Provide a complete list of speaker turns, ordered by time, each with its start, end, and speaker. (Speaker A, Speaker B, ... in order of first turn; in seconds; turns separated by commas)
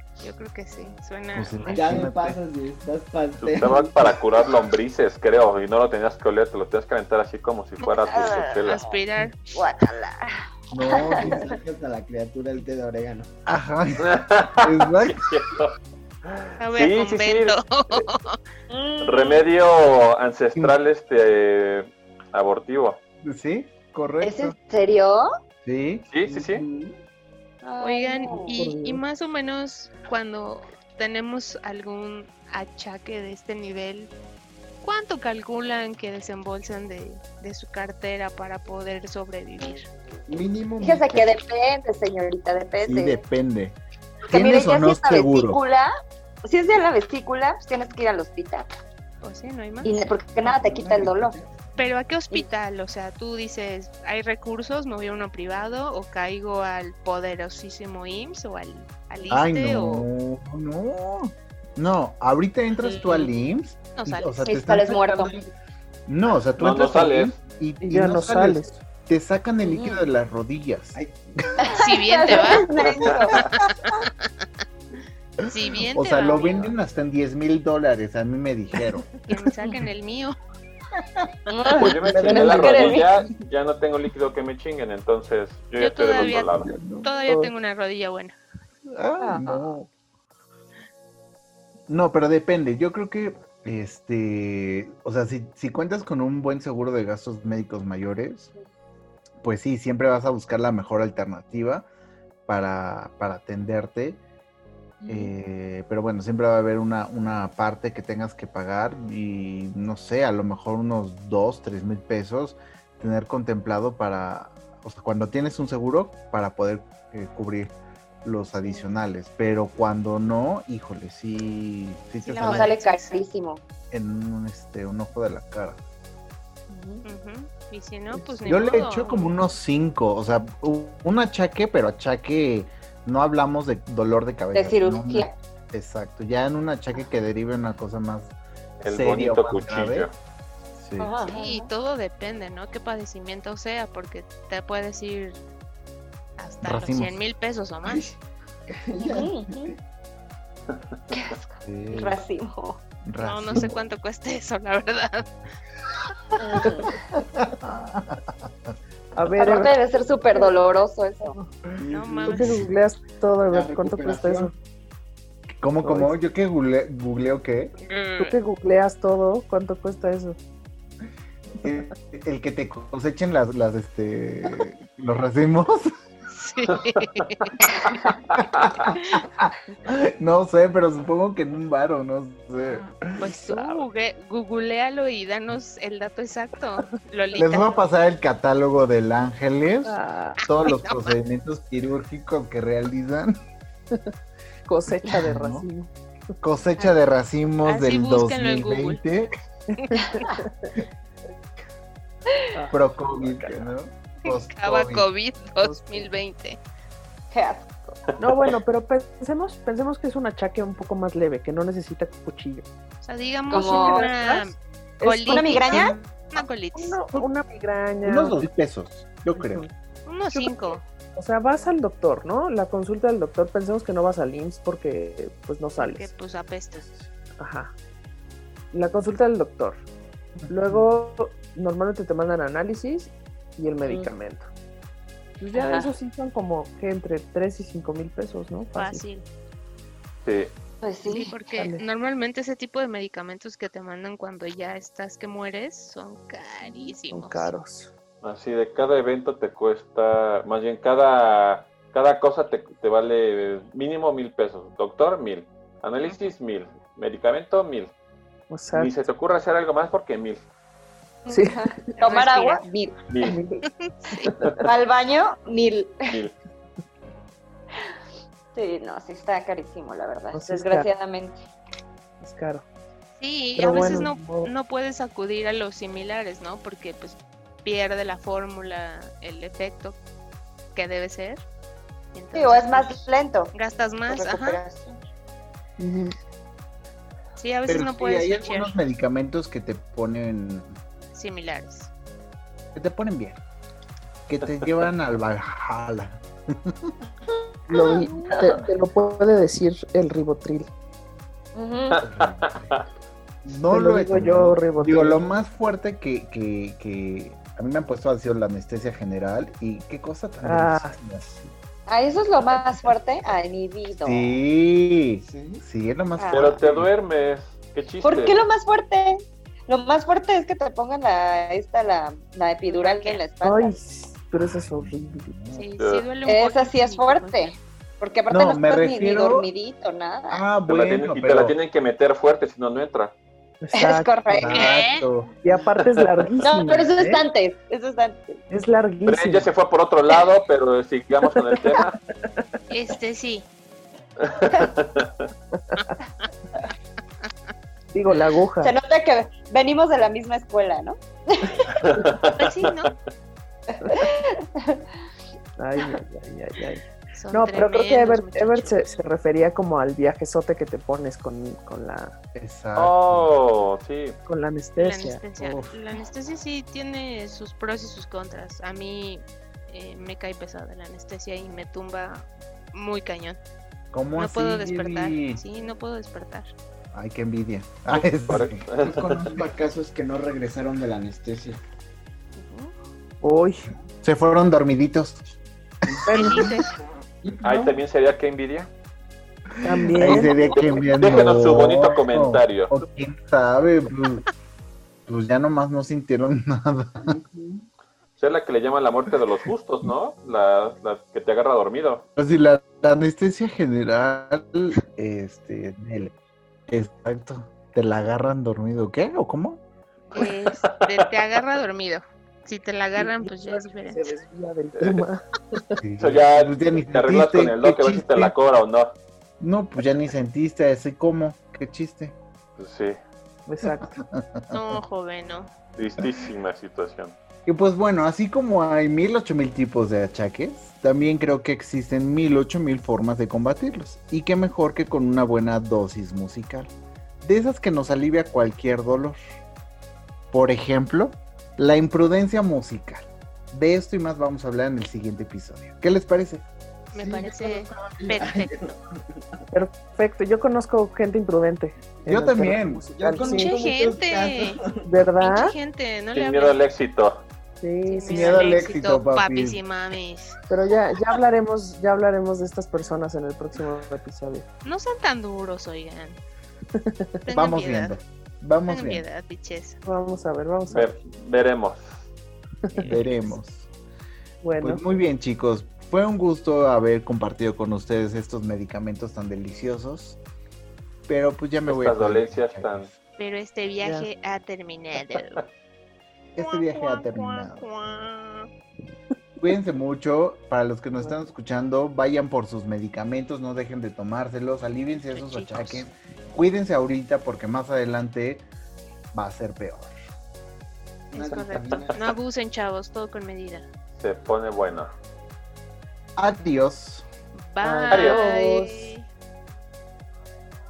Speaker A: 0.2-2.0, Speaker B: 1.3-2.4, Speaker C: 1.7-4.2, Speaker D: 3.4-8.8, Speaker A: 7.8-9.6, Speaker E: 8.1-9.0, Speaker E: 9.5-11.5, Speaker B: 10.7-11.5, Speaker C: 11.1-13.3, Speaker B: 13.4-15.2, Speaker D: 14.0-18.0, Speaker A: 16.6-18.4, Speaker E: 18.7-19.4, Speaker D: 19.0-23.0, Speaker B: 23.2-24.5, Speaker E: 24.2-25.3, Speaker B: 25.6-26.1, Speaker D: 26.1-26.6, Speaker C: 26.2-27.0, Speaker E: 27.6-28.6, Speaker A: 27.8-34.1, Speaker F: 28.5-29.0, Speaker A: 34.8-39.9, Speaker C: 40.3-41.3, Speaker E: 40.8-43.2, Speaker B: 42.8-43.8, Speaker B: 44.3-45.6, Speaker E: 44.3-45.9, Speaker E: 46.4-48.7, Speaker A: 49.2-49.9, Speaker E: 49.8-51.4, Speaker C: 50.4-51.8, Speaker A: 51.8-60.0, Speaker B: 59.3-65.5, Speaker E: 62.8-63.3, Speaker A: 64.0-64.5, Speaker E: 64.5-65.4, Speaker B: 66.1-71.0, Speaker D: 66.6-67.4, Speaker F: 67.9-68.7, Speaker E: 69.6-70.0, Speaker C: 70.9-71.2, Speaker E: 71.6-73.4, Speaker A: 71.7-74.3, Speaker B: 75.4-79.2, Speaker A: 75.5-76.7, Speaker A: 79.3-80.3, Speaker B: 81.0-81.3, Speaker E: 81.5-83.1, Speaker D: 81.7-86.7, Speaker B: 82.0-82.9, Speaker C: 82.2-83.1, Speaker A: 85.8-86.5, Speaker B: 86.2-87.5, Speaker A: 87.0-88.3, Speaker B: 88.9-89.9, Speaker E: 89.2-89.7, Speaker B: 91.9-98.5, Speaker B: 99.4-101.8, Speaker B: 102.5-104.2, Speaker E: 105.0-105.3, Speaker B: 105.1-122.8, Speaker E: 122.2-123.6, Speaker A: 122.3-123.2, Speaker B: 123.9-125.8, Speaker E: 126.7-127.0, Speaker A: 127.0-129.3, Speaker B: 128.4-138.3, Speaker E: 134.5-135.3, Speaker D: 138.8-140.1, Speaker B: 138.8-140.1, Speaker B: 140.8-141.1, Speaker E: 141.0-141.7, Speaker A: 141.2-145.4, Speaker A: 146.4-148.0, Speaker B: 146.6-147.2, Speaker C: 147.8-148.2, Speaker C: 148.7-149.8, Speaker E: 149.0-149.7, Speaker E: 151.1-152.8, Speaker B: 151.6-152.2, Speaker B: 153.1-153.7, Speaker A: 153.2-155.3, Speaker E: 156.4-157.0, Speaker B: 157.2-158.5, Speaker F: 159.1-159.8, Speaker E: 159.4-161.4, Speaker C: 161.8-162.6, Speaker A: 161.9-162.6, Speaker F: 162.3-164.5, Speaker B: 162.4-162.7, Speaker C: 163.5-164.5, Speaker B: 165.6-167.7, Speaker F: 165.8-166.1, Speaker A: 167.8-168.3, Speaker F: 168.2-170.4, Speaker B: 171.6-175.9, Speaker A: 176.3-177.7, Speaker B: 178.3-183.3, Speaker A: 183.2-187.7, Speaker F: 183.3-183.8, Speaker B: 187.3-193.4, Speaker F: 189.9-190.4, Speaker A: 190.5-191.1, Speaker F: 194.6-195.9, Speaker B: 195.1-195.7, Speaker B: 196.4-199.3, Speaker A: 197.6-199.0, Speaker F: 199.7-200.7, Speaker F: 202.5-203.7, Speaker B: 202.7-205.0, Speaker A: 204.2-206.6, Speaker F: 205.6-206.1, Speaker E: 207.3-207.7, Speaker F: 208.2-212.7, Speaker A: 213.0-217.0, Speaker E: 213.5-214.1, Speaker F: 213.5-215.8, Speaker E: 215.2-215.9, Speaker B: 215.7-216.0, Speaker F: 216.7-218.4, Speaker B: 218.0-219.6, Speaker F: 219.3-219.7, Speaker A: 220.1-220.8, Speaker F: 220.3-226.1, Speaker A: 225.8-226.9, Speaker F: 227.4-227.7, Speaker F: 228.7-229.8, Speaker B: 230.4-230.9, Speaker F: 230.5-234.5, Speaker E: 233.8-234.1, Speaker F: 235.4-239.0, Speaker E: 235.6-235.9, Speaker A: 238.7-239.2, Speaker D: 240.2-240.5, Speaker E: 240.8-241.3, Speaker A: 241.0-247.5, Speaker F: 241.5-241.8, Speaker F: 246.6-247.9, Speaker D: 248.2-257.9, Speaker F: 258.5-258.9, Speaker D: 258.7-260.4, Speaker E: 261.2-262.9, Speaker F: 261.3-261.8, Speaker A: 262.0-262.6, Speaker D: 263.1-263.4, Speaker F: 263.2-264.6, Speaker A: 263.8-264.3, Speaker E: 264.6-265.9, Speaker D: 266.1-266.4, Speaker E: 268.5-271.4, Speaker F: 270.3-270.9, Speaker F: 272.2-272.6, Speaker A: 273.2-280.0, Speaker F: 273.5-274.5, Speaker A: 280.7-281.4, Speaker A: 282.1-283.0, Speaker E: 282.3-283.5, Speaker A: 283.5-284.6, Speaker E: 284.1-285.0, Speaker F: 285.8-286.1, Speaker A: 287.4-288.7, Speaker B: 287.7-290.7, Speaker A: 291.1-291.9, Speaker B: 292.7-293.4, Speaker B: 294.3-296.9, Speaker F: 297.7-300.7, Speaker B: 297.8-298.5, Speaker E: 301.5-302.0, Speaker D: 302.0-302.8, Speaker C: 302.0-302.6, Speaker B: 302.1-302.5, Speaker B: 303.4-311.4, Speaker F: 303.7-305.2, Speaker F: 310.4-311.0, Speaker E: 311.9-314.4, Speaker B: 314.0-316.9, Speaker C: 315.2-315.6, Speaker E: 316.2-316.6, Speaker D: 316.3-318.4, Speaker E: 318.0-323.8, Speaker A: 322.6-323.2, Speaker F: 323.4-325.3, Speaker B: 324.4-325.6, Speaker A: 325.5-327.5, Speaker D: 325.8-326.0, Speaker E: 326.2-330.4, Speaker B: 328.3-329.5, Speaker B: 330.3-331.6, Speaker D: 330.7-333.1, Speaker F: 333.6-334.6, Speaker E: 333.7-334.7, Speaker B: 334.3-335.3, Speaker A: 334.5-335.1, Speaker F: 335.4-337.2, Speaker E: 336.4-338.4, Speaker F: 338.5-339.5, Speaker D: 339.1-342.0, Speaker A: 342.7-343.4, Speaker D: 344.2-345.2, Speaker A: 345.8-346.3, Speaker F: 347.9-348.7, Speaker E: 348.6-351.9, Speaker D: 351.7-352.7, Speaker A: 352.3-352.9, Speaker E: 353.8-354.8, Speaker F: 355.6-362.1, Speaker A: 357.1-358.9, Speaker B: 362.3-363.3, Speaker D: 362.8-364.2, Speaker F: 364.3-365.2, Speaker A: 364.8-373.4, Speaker B: 365.4-365.8, Speaker B: 373.9-375.4, Speaker A: 374.2-376.5, Speaker B: 376.9-379.3, Speaker D: 377.9-379.3, Speaker C: 378.9-381.6, Speaker A: 382.4-382.7, Speaker F: 383.2-383.7, Speaker B: 384.0-385.3, Speaker B: 385.9-386.5, Speaker F: 386.1-386.5, Speaker A: 386.1-386.7, Speaker C: 387.2-387.8, Speaker D: 387.4-388.7, Speaker F: 389.6-390.4, Speaker B: 389.9-394.2, Speaker D: 390.0-392.7, Speaker B: 395.1-397.2, Speaker C: 397.0-397.6, Speaker D: 398.2-402.1, Speaker B: 402.2-406.1, Speaker B: 406.7-409.6, Speaker A: 410.1-414.1, Speaker D: 410.1-411.2, Speaker F: 412.9-415.8, Speaker B: 415.8-418.3, Speaker D: 416.0-418.9, Speaker B: 419.4-422.1, Speaker D: 422.6-422.9, Speaker F: 423.5-423.9, Speaker B: 423.6-424.8, Speaker A: 424.5-425.5, Speaker D: 425.8-427.1, Speaker B: 427.4-439.2, Speaker B: 440.3-446.4, Speaker A: 446.9-448.5, Speaker C: 446.9-449.2, Speaker F: 449.5-453.5, Speaker B: 452.1-452.8, Speaker C: 452.9-454.9, Speaker A: 453.2-454.6, Speaker F: 454.8-455.5, Speaker A: 455.2-456.6, Speaker D: 456.1-457.2, Speaker F: 457.6-458.5, Speaker A: 457.9-460.4, Speaker B: 458.1-459.6, Speaker F: 460.5-464.4, Speaker A: 464.6-466.2, Speaker A: 467.2-468.0, Speaker B: 467.3-469.0, Speaker A: 468.7-469.8, Speaker F: 469.8-470.9, Speaker D: 470.7-472.1, Speaker F: 472.7-473.1, Speaker A: 472.8-473.2, Speaker B: 472.9-473.7, Speaker F: 474.4-474.8, Speaker B: 474.6-480.2, Speaker B: 481.1-482.9, Speaker D: 481.7-482.9, Speaker A: 483.2-485.4, Speaker F: 483.8-484.1, Speaker B: 486.3-487.6, Speaker A: 486.4-488.5, Speaker B: 489.4-498.4, Speaker A: 495.0-495.9, Speaker B: 499.1-499.9, Speaker C: 501.1-502.1, Speaker F: 501.1-501.4, Speaker A: 501.1-503.6, Speaker D: 504.0-504.9, Speaker B: 506.2-507.1, Speaker A: 507.3-509.1, Speaker F: 507.6-508.9, Speaker D: 507.9-508.2